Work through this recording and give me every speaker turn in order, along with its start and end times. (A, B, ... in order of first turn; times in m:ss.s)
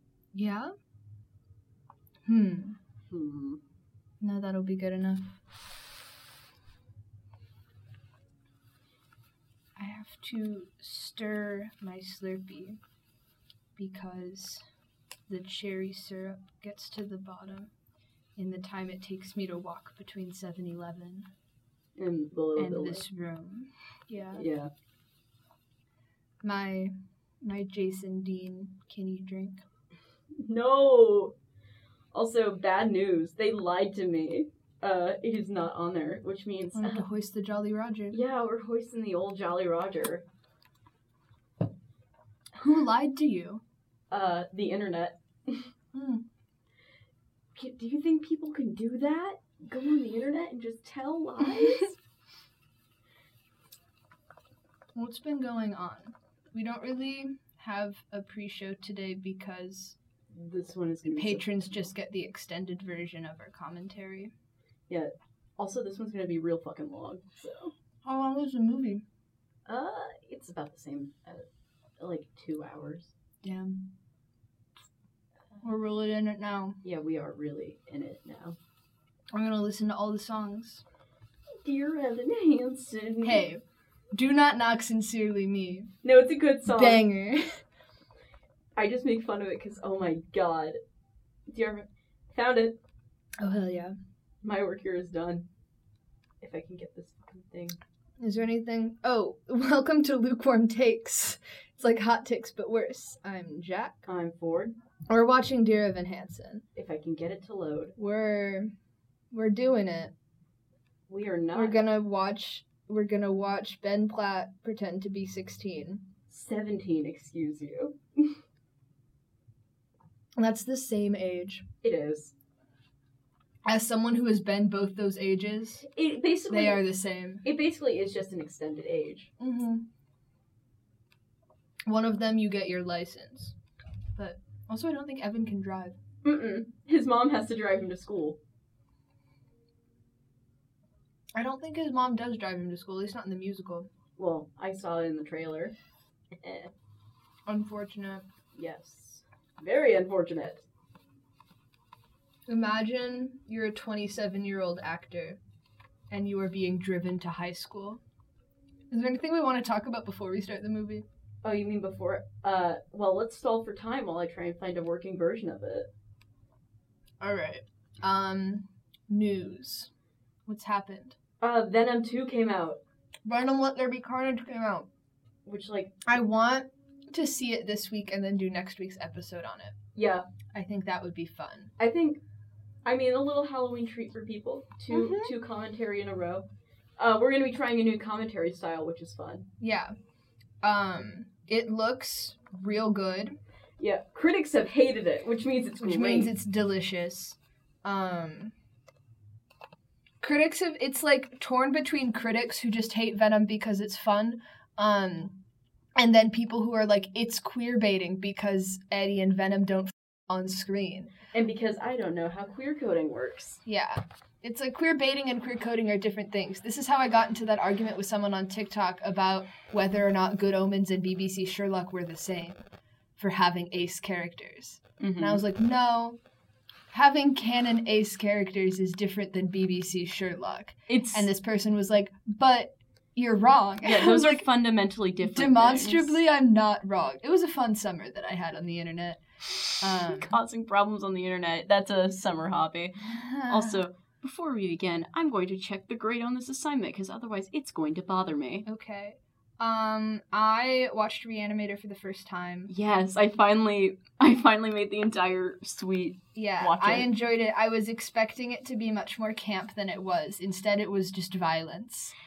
0:00.3-0:00.7 A
0:02.3-0:02.8 A
0:03.1-0:03.6 B
0:04.2-0:05.4 A
0:09.8-0:12.8 A
0:13.8-0:14.6 A
0:15.3-0:17.7 A
0:18.4-0:21.3 A
0:22.0-0:23.0 B
0:22.6-0:24.4 A
0:24.3-0:24.7 B
0:26.4-0:29.6 A
0:30.3-0:31.3 B
0:32.1-0:37.0 B
0:36.7-0:38.2 A
0:38.1-0:40.2 B
0:42.6-0:43.6 A
0:44.1-0:45.7 B
0:45.9-0:46.2 A
0:47.5-0:51.9 B
0:54.9-1:00.0 A
1:00.3-1:01.5 B
1:01.2-1:04.3 A
1:04.9-1:07.7 B
1:08.0-1:09.0 A
1:09.7-1:11.4 B
1:12.0-1:13.1 B
1:13.4-1:13.8 A
1:15.6-1:16.8 A
1:16.8-1:18.6 B
1:19.3-1:20.8 A
1:21.6-1:23.4 B
1:23.2-1:23.6 A
1:24.1-1:25.9 A
1:26.0-1:27.0 B
1:26.6-1:27.6 A
1:28.8-1:30.8 B
1:31.5-1:32.8 B
1:33.4-1:33.9 A
1:34.4-1:35.5 B
1:36.4-1:37.8 B
1:38.2-1:44.0 A
1:44.0-1:44.7 B
1:45.1-1:46.6 A
1:46.7-1:47.9 B
1:48.0-1:48.7 A
1:49.3-1:50.1 A
1:51.1-1:51.8 B
1:51.5-1:56.0 A
1:56.3-1:58.4 B
2:00.4-2:01.6 A
2:01.8-2:02.3 B
2:03.6-2:05.8 A
2:05.8-2:06.8 B
2:06.5-2:07.4 A
2:07.4-2:09.3 B
2:09.4-2:09.8 A
2:11.9-2:13.6 A
2:14.2-2:16.0 A
2:16.2-2:18.4 B
2:21.4-2:23.9 A
2:24.2-2:25.7 B
2:26.4-2:26.7 B
2:27.5-2:28.2 A
2:28.5-2:30.6 B
2:32.5-2:35.4 A
2:36.1-2:38.0 A
2:38.9-2:41.0 A
2:41.4-2:45.9 B
2:47.2-2:49.9 A
2:50.4-2:51.2 A
2:51.4-2:52.8 B
2:53.2-2:54.9 A
2:55.4-2:55.9 B
2:56.0-2:59.7 A
2:59.9-3:00.2 B
3:00.5-3:01.7 A
3:01.8-3:02.2 B
3:02.8-3:06.4 B
3:04.9-3:05.3 A
3:07.0-3:09.5 B
3:09.6-3:09.9 A
3:10.6-3:13.4 A
3:13.8-3:16.3 B
3:15.8-3:18.5 A
3:20.2-3:25.4 A
3:26.0-3:31.1 A
3:31.3-3:33.6 B
3:33.6-3:42.6 A
3:43.2-3:46.2 A
3:45.0-3:45.4 B
3:46.9-3:54.5 A
3:50.9-3:51.3 B
3:53.8-3:56.2 B
3:55.2-3:59.2 A
3:59.8-4:00.3 A
4:00.0-4:08.7 B
4:03.0-4:03.8 A
4:08.6-4:12.7 A
4:12.7-4:17.1 B
4:16.3-4:22.1 A